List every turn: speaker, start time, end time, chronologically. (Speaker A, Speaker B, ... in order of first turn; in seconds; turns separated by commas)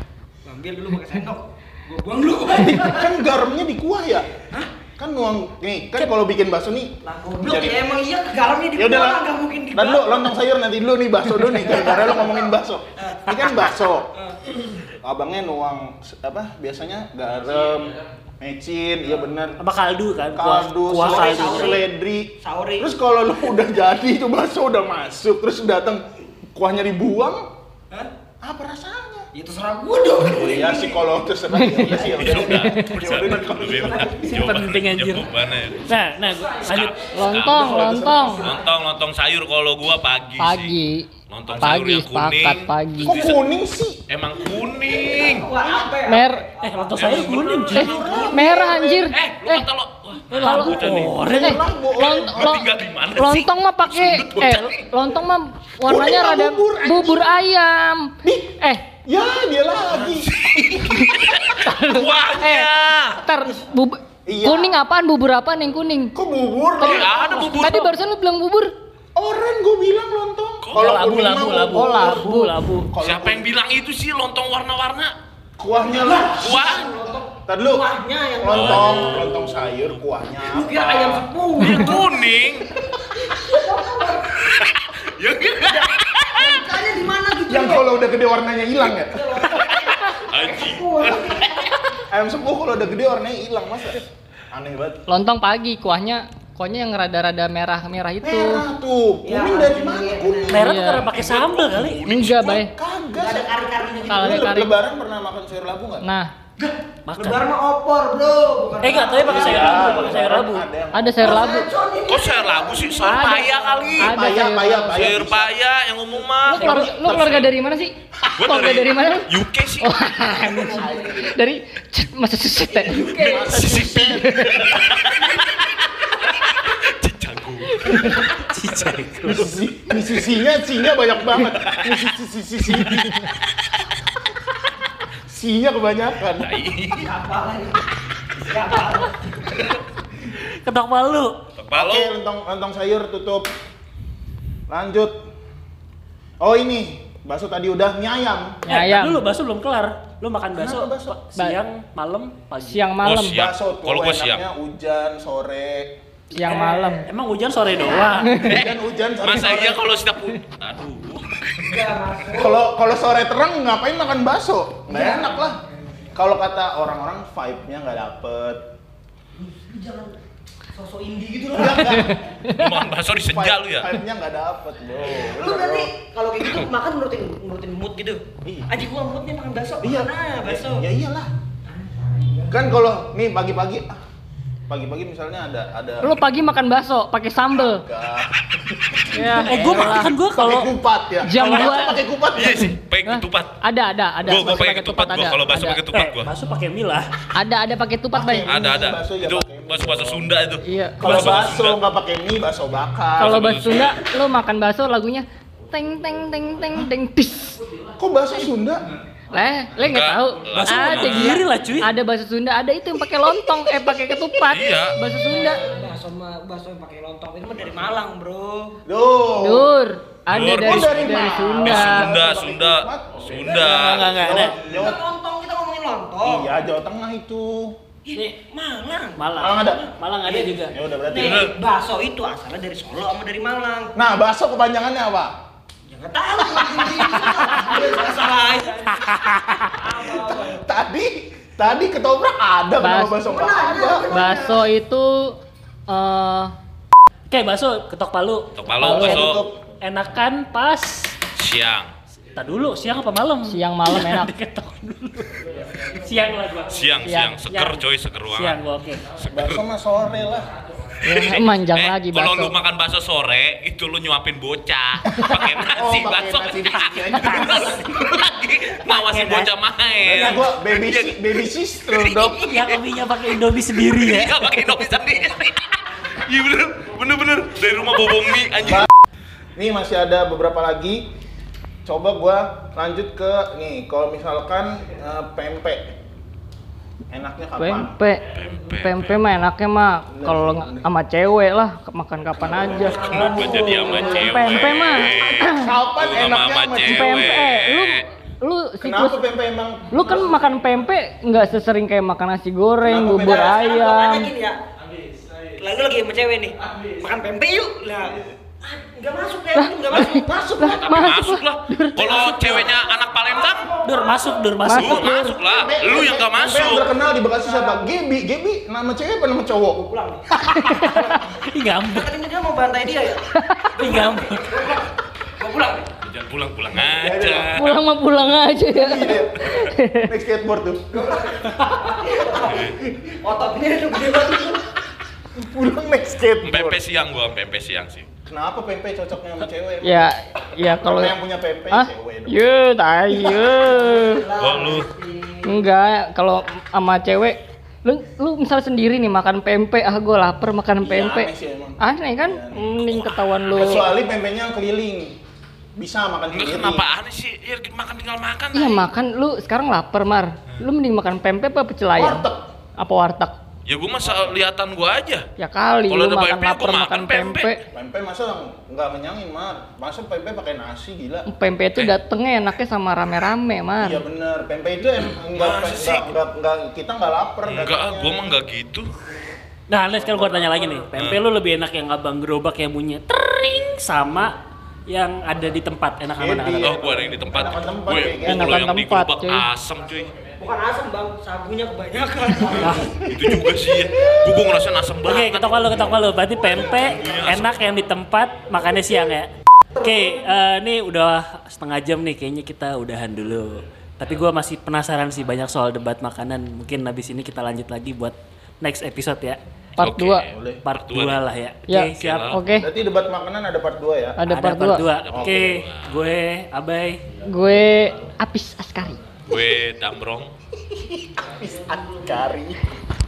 Speaker A: 0.4-3.2, Speaker B: 2.5-4.3, Speaker B: 5.0-7.8, Speaker A: 7.0-10.3, Speaker B: 8.8-14.1, Speaker A: 11.6-12.5, Speaker A: 13.0-13.3, Speaker B: 14.9-19.6, Speaker C: 19.6-21.8, Speaker B: 20.3-27.4, Speaker A: 21.0-21.9, Speaker A: 22.4-22.9, Speaker B: 28.4-29.3, Speaker A: 29.3-31.0, Speaker B: 30.3-34.3, Speaker D: 31.5-33.0, Speaker A: 31.9-32.4, Speaker E: 32.1-35.9, Speaker C: 34.2-35.3, Speaker C: 35.8-37.0, Speaker E: 36.5-40.7, Speaker D: 37.1-38.5, Speaker B: 37.4-38.4, Speaker D: 40.4-43.3, Speaker E: 41.3-43.4, Speaker B: 43.0-44.0, Speaker E: 44.1-45.5, Speaker A: 45.0-48.5, Speaker D: 46.0-46.4, Speaker C: 46.6-47.9, Speaker E: 47.0-48.4, Speaker B: 47.7-49.1, Speaker D: 47.7-49.6, Speaker E: 49.1-51.3, Speaker C: 50.3-51.6, Speaker D: 50.4-50.8, Speaker B: 51.3-52.5, Speaker D: 51.4-58.9, Speaker E: 52.1-54.9, Speaker B: 55.9-57.3, Speaker B: 58.2-61.1, Speaker E: 60.0-63.2, Speaker D: 60.8-66.1, Speaker B: 64.2-64.8, Speaker B: 66.1-67.2, Speaker E: 66.8-67.9, Speaker D: 66.8-68.7, Speaker B: 69.2-72.3, Speaker E: 70.6-71.0, Speaker C: 70.7-72.9, Speaker D: 71.6-72.5, Speaker B: 72.9-73.5, Speaker E: 73.0-75.1, Speaker B: 75.6-76.9, Speaker A: 75.9-79.3, Speaker E: 76.3-76.8, Speaker B: 77.5-77.8, Speaker B: 78.4-81.3, Speaker E: 78.5-79.6, Speaker A: 80.4-82.2, Speaker E: 81.6-82.7, Speaker A: 83.2-84.4, Speaker E: 84.4-86.6, Speaker A: 85.7-88.0, Speaker B: 87.5-89.4, Speaker A: 88.8-91.7, Speaker E: 89.6-91.7, Speaker B: 92.1-95.0, Speaker D: 95.1-98.7, Speaker B: 98.2-100.9, Speaker A: 99.2-100.6, Speaker C: 100.5-102.1, Speaker D: 100.6-101.1, Speaker E: 101.0-102.6, Speaker D: 102.0-102.7, Speaker B: 102.4-106.0, Speaker A: 103.2-104.5, Speaker D: 104.1-104.7, Speaker D: 106.0-106.3, Speaker A: 106.6-110.2, Speaker C: 107.1-107.5, Speaker C: 108.8-110.7, Speaker B: 109.2-111.6, Speaker D: 110.9-111.7, Speaker A: 111.2-113.9, Speaker E: 112.0-114.3, Speaker D: 113.0-114.9, Speaker B: 114.0-115.5, Speaker E: 114.9-117.5, Speaker D: 116.4-124.7, Speaker B: 116.6-117.5, Speaker E: 118.4-119.9, Speaker A: 120.8-121.3, Speaker A: 122.7-123.5, Speaker B: 123.2-124.9, Speaker E: 123.5-128.1, Speaker C: 127.8-129.5, Speaker B: 129.2-133.3, Speaker B: 135.2-136.5, Speaker E: 136.4-137.1, Speaker A: 136.9-137.8, Speaker A: 138.4-139.6, Speaker C: 140.3-141.4, Speaker E: 141.6-142.1, Speaker B: 141.7-143.5, Speaker B: 144.7-145.2, Speaker B: 146.4-148.6, Speaker D: 148.6-149.2, Speaker C: 148.7-152.8, Speaker B: 150.5-151.2, Speaker D: 152.6-153.4, Speaker E: 153.0-154.4, Speaker B: 153.3-156.0, Speaker D: 156.3-157.1, Speaker C: 156.4-158.4, Speaker A: 156.4-157.0, Speaker D: 158.2-158.6, Speaker B: 158.4-159.9, Speaker E: 158.5-161.9, Speaker A: 161.6-162.7, Speaker B: 162.3-165.6, Speaker A: 164.9-165.5, Speaker B: 166.1-168.7, Speaker A: 169.4-170.2, Speaker A: 170.7-172.2, Speaker B: 171.5-172.2, Speaker D: 171.9-172.7, Speaker E: 172.5-174.0, Speaker B: 173.2-175.9, Speaker A: 175.1-180.8, Speaker B: 178.4-178.7, Speaker B: 179.8-181.3, Speaker A: 181.8-182.6, Speaker B: 182.5-184.0, Speaker B: 184.7-186.2, Speaker D: 186.0-187.8, Speaker B: 187.5-192.7, Speaker D: 189.1-190.1, Speaker C: 189.3-190.7, Speaker D: 191.2-192.0, Speaker C: 191.4-191.6, Speaker E: 192.3-193.6, Speaker D: 193.1-195.8, Speaker E: 194.2-196.3, Speaker C: 195.9-197.1, Speaker D: 197.4-198.5, Speaker B: 198.1-200.3, Speaker E: 198.5-201.8, Speaker D: 200.6-201.3, Speaker B: 201.0-203.9, Speaker E: 203.2-204.0, Speaker D: 203.2-207.6, Speaker B: 208.0-208.9, Speaker D: 209.3-215.6, Speaker E: 209.8-211.4, Speaker C: 210.5-211.9, Speaker E: 214.5-215.0, Speaker A: 215.3-218.8, Speaker B: 218.8-219.7, Speaker D: 219.4-222.1, Speaker E: 220.3-224.2, Speaker B: 220.3-225.0, Speaker C: 223.6-224.6, Speaker A: 223.7-226.5, Speaker B: 226.2-227.8, Speaker A: 228.0-229.6, Speaker C: 229.2-230.7, Speaker B: 229.4-229.8, Speaker A: 230.2-233.9, Speaker B: 230.7-231.5, Speaker E: 231.2-231.5, Speaker B: 233.9-235.3, Speaker A: 235.9-240.6, Speaker B: 236.6-238.0, Speaker C: 237.4-237.7, Speaker C: 238.8-239.8, Speaker B: 239.9-244.2, Speaker D: 242.8-243.2, Speaker A: 243.2-244.7, Speaker D: 244.1-245.4, Speaker D: 245.9-246.5, Speaker C: 247.3-251.2, Speaker E: 248.5-249.5, Speaker B: 248.8-249.6, Speaker E: 251.3-251.9, Speaker C: 252.3-256.9, Speaker D: 253.5-254.3, Speaker E: 256.7-258.6, Speaker D: 257.0-257.4, Speaker C: 257.5-259.0, Speaker E: 259.2-259.6, Speaker B: 259.3-260.5, Speaker E: 261.0-272.8, Speaker D: 261.0-262.6, Speaker B: 265.7-268.1, Speaker C: 268.8-269.5, Speaker C: 270.0-270.4, Speaker B: 270.1-272.5, Speaker C: 272.4-274.4, Speaker E: 273.8-278.9, Speaker B: 279.6-281.1, Speaker B: 281.8-285.9, Speaker B: 287.1-288.0, Speaker D: 287.6-295.7, Speaker E: 288.3-289.2, Speaker B: 290.1-290.9, Speaker B: 292.4-292.9, Speaker E: 293.0-298.1, Speaker A: 293.0-294.2, Speaker B: 295.5-297.3, Speaker D: 296.8-299.2, Speaker B: 298.8-300.5, Speaker D: 299.9-304.3, Speaker B: 302.8-303.6, Speaker A: 303.2-304.6, Speaker A: 305.6-310.8, Speaker D: 309.6-312.5, Speaker E: 310.7-313.8, Speaker A: 312.0-314.5, Speaker C: 313.8-315.1, Speaker D: 314.6-315.4, Speaker E: 314.7-316.9, Speaker B: 315.4-319.9, Speaker A: 317.2-318.0, Speaker A: 319.8-320.2, Speaker D: 320.5-321.2, Speaker A: 320.8-321.2, Speaker C: 321.3-322.1, Speaker A: 321.8-325.9, Speaker D: 323.3-323.7, Speaker C: 323.8-324.5, Speaker E: 326.0-327.8, Speaker B: 326.8-327.6, Speaker D: 327.5-330.1, Speaker B: 328.7-331.1, Speaker A: 330.9-334.6, Speaker E: 332.3-332.8, Speaker B: 335.3-336.8, Speaker E: 336.4-338.1, Speaker B: 338.2-342.4, Speaker D: 339.8-341.1, Speaker D: 341.7-344.3, Speaker B: 343.1-343.6, Speaker A: 343.6-345.6, Speaker E: 344.4-344.9, Speaker D: 345.4-351.3, Speaker B: 350.8-352.8, Speaker D: 351.8-353.9, Speaker E: 352.9-353.8, Speaker B: 353.5-355.2, Speaker B: 355.8-356.8, Speaker E: 356.3-358.8, Speaker D: 358.5-362.2, Speaker B: 361.9-362.4, Speaker D: 362.8-363.3, Speaker E: 363.6-365.2, Speaker D: 365.4-367.6, Speaker E: 365.9-367.6, Speaker B: 367.7-371.3, Speaker D: 371.3-374.0, Speaker B: 373.8-378.3, Speaker E: 375.3-376.1, Speaker E: 377.4-378.9, Speaker C: 379.7-386.8, Speaker B: 380.1-380.5, Speaker E: 380.9-381.2, Speaker B: 386.2-388.7, Speaker E: 386.6-390.1, Speaker D: 388.2-389.5, Speaker A: 390.4-392.9, Speaker C: 392.6-392.9, Speaker B: 392.6-394.2, Speaker E: 393.0-397.6, Speaker C: 395.0-409.4, Speaker D: 409.8-410.2, Speaker E: 409.8-411.2, Speaker B: 410.3-410.6, Speaker C: 410.6-412.4, Speaker D: 411.7-412.7, Speaker E: 411.9-412.5, Speaker B: 412.5-414.2, Speaker D: 414.2-414.9, Speaker C: 414.3-417.0, Speaker E: 414.9-416.0, Speaker B: 415.1-415.5, Speaker D: 417.3-419.0, Speaker E: 419.3-420.3, Speaker B: 420.7-422.6